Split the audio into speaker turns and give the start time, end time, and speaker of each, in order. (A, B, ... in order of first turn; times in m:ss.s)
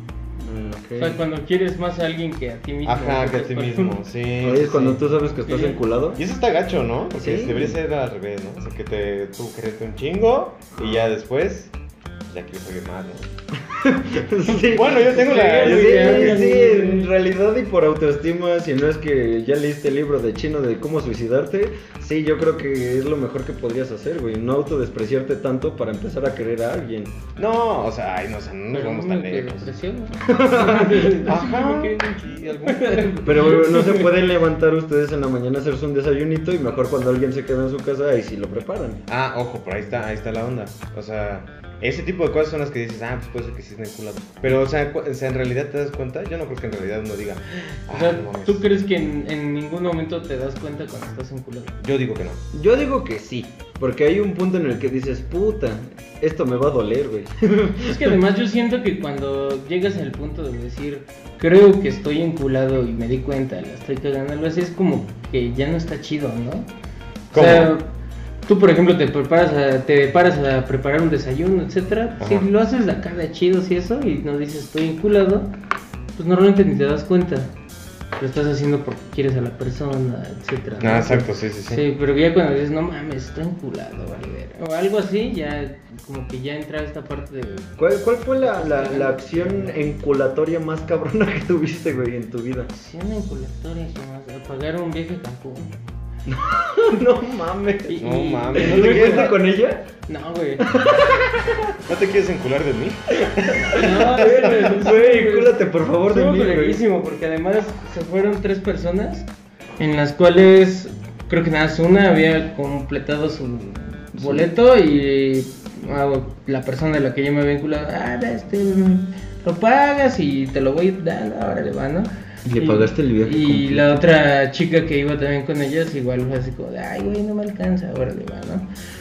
0:00.4-0:01.2 A
0:01.0-0:04.0 B
0:02.8-0:05.1 C
0:04.4-0:06.2 A
0:05.4-0:05.8 B
0:06.2-0:11.7 C
0:07.1-0:07.8 A
0:10.8-0:11.1 A
0:12.3-0:13.2 C
0:13.6-0:27.2 A
0:14.6-0:16.5 C
0:14.8-0:17.1 B
0:27.4-0:29.7 C
0:28.7-0:34.1 B
0:30.2-0:31.3 A
0:31.0-0:33.3 C
0:33.2-0:39.0 A
0:39.1-0:48.6 C
0:47.9-0:51.8 B
0:51.8-0:52.4 C
0:52.5-0:58.2 A
0:57.8-1:06.7 B
1:07.3-1:07.7 C
1:07.3-1:07.9 B
1:08.5-1:15.5 B
1:12.2-1:12.5 C
1:16.2-1:17.5 B
1:18.2-1:27.7 B
1:20.8-1:21.8 C
1:27.8-1:32.7 A
1:28.4-1:29.8 B
1:32.7-1:35.8 B
1:36.3-1:39.9 A
1:37.9-1:39.4 B
1:38.0-1:39.4 C
1:40.1-1:40.8 B
1:40.6-1:41.5 A
1:41.8-1:44.8 C
1:43.6-1:46.8 A
1:43.6-1:49.3 B
1:49.8-2:08.7 B
1:54.2-1:54.5 A
2:02.4-2:04.0 A